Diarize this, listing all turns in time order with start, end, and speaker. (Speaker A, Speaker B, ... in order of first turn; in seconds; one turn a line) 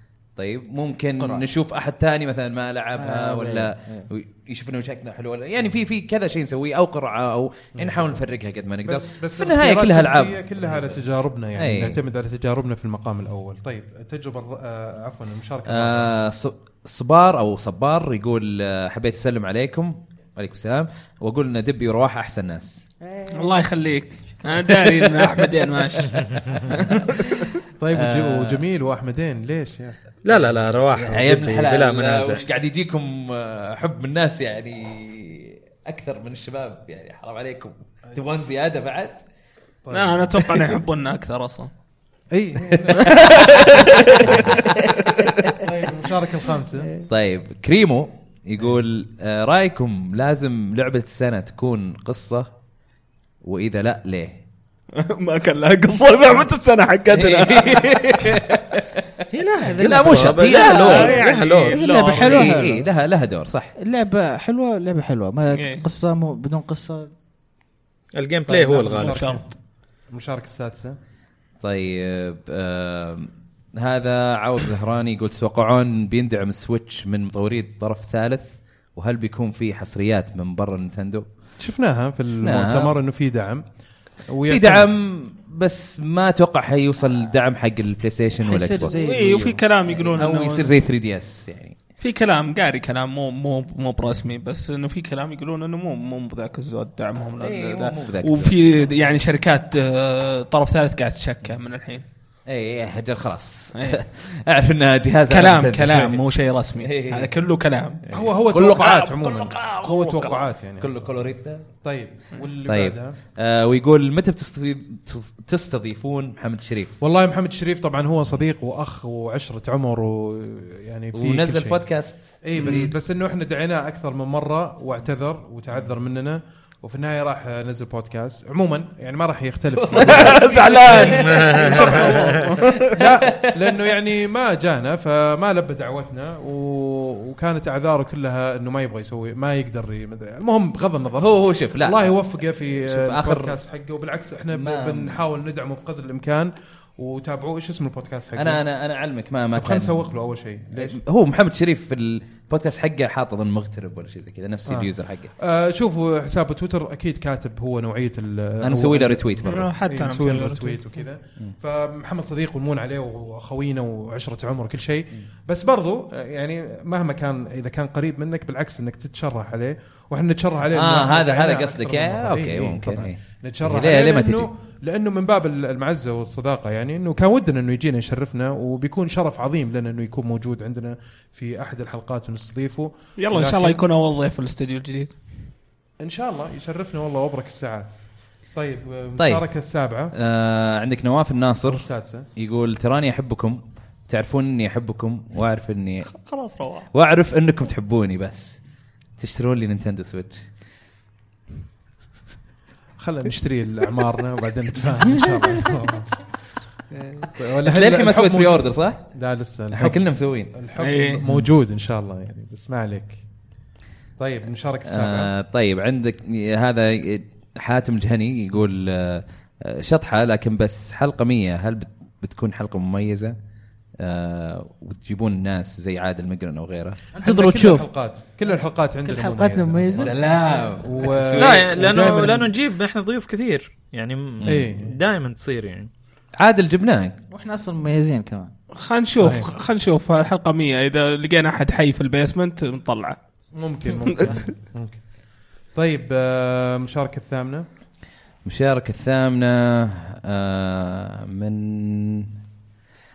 Speaker A: 0.3-11.0
Speaker B: 1.2-1.5
Speaker B: 3.0-4.1
Speaker C: 7.8-8.2
Speaker C: 8.8-16.1
Speaker A: 11.6-12.0
Speaker A: 15.7-22.8
Speaker D: 23.3-27.4
Speaker C: 27.8-30.0
Speaker A: 27.9-28.6
Speaker E: 30.2-32.4
Speaker A: 30.9-39.2
Speaker C: 39.8-40.5
Speaker D: 39.9-41.7
Speaker C: 42.3-43.2
Speaker A: 42.7-44.6
Speaker D: 43.0-44.5
Speaker C: 45.6-46.9
Speaker A: 47.1-52.5
Speaker A: 53.4-54.4
Speaker D: 55.0-58.5
Speaker A: 57.1-59.2
Speaker E: 59.3-61.8
Speaker B: 59.6-60.9
Speaker A: 59.8-61.2
Speaker D: 60.5-62.6
Speaker B: 61.7-62.9
Speaker A: 61.8-63.7
Speaker B: 63.8-67.1
Speaker D: 65.5-65.8
Speaker E: 68.1-69.2
Speaker C: 68.5-69.5
Speaker D: 68.9-69.5
Speaker C: 70.1-71.0
Speaker A: 71.6-81.2
Speaker C: 81.6-83.7
Speaker A: 82.4-82.9
Speaker C: 84.2-85.0
Speaker A: 84.5-89.0
Speaker B: 88.4-89.6
Speaker D: 88.9-90.7
Speaker A: 89.9-91.8
Speaker D: 92.0-102.0
Speaker A: 97.4-98.9
Speaker A: 102.5-106.2
Speaker D: 103.7-104.0
Speaker D: 105.3-108.0
Speaker A: 106.8-107.3
Speaker A: 108.1-110.0
Speaker C: 108.1-111.1
Speaker D: 109.9-110.3
Speaker A: 110.8-111.7
Speaker C: 111.8-113.2
Speaker A: 112.7-117.0
Speaker C: 117.0-121.8
Speaker A: 121.1-122.9
Speaker C: 122.4-148.6
Speaker A: 129.7-133.8
Speaker D: 129.9-131.7
Speaker E: 131.0-132.3
Speaker D: 132.3-132.9
Speaker A: 141.2-142.1
Speaker A: 142.8-143.6
Speaker A: 144.5-145.2
Speaker A: 148.3-150.1
Speaker C: 149.5-151.0
Speaker A: 150.7-155.3
Speaker C: 154.7-183.8
Speaker A: 158.6-159.7
Speaker D: 159.4-160.8
Speaker A: 170.7-174.5
Speaker D: 183.2-185.1
Speaker C: 186.0-187.9
Speaker C: 188.5-190.1
Speaker A: 189.2-189.4
Speaker A: 190.1-196.1
Speaker C: 191.7-192.3
Speaker D: 196.1-196.9
Speaker A: 196.9-198.6
Speaker A: 199.2-200.4
Speaker C: 203.0-206.2
Speaker C: 207.3-210.0
Speaker A: 207.6-209.0
Speaker A: 209.7-210.6
Speaker C: 210.5-213.2
Speaker D: 210.8-211.2
Speaker C: 214.2-215.3
Speaker A: 214.8-223.3
Speaker A: 224.0-227.0
Speaker B: 227.2-227.9
Speaker C: 227.2-230.1
Speaker B: 229.0-231.1
Speaker A: 229.9-232.3
Speaker C: 230.8-232.5
Speaker E: 231.4-235.9
Speaker C: 234.4-234.9
Speaker A: 236.4-237.2
Speaker B: 237.3-238.5
Speaker D: 238.7-243.2
Speaker C: 239.1-239.5
Speaker C: 243.6-245.0
Speaker D: 244.1-244.4
Speaker C: 245.7-247.7
Speaker A: 248.4-252.3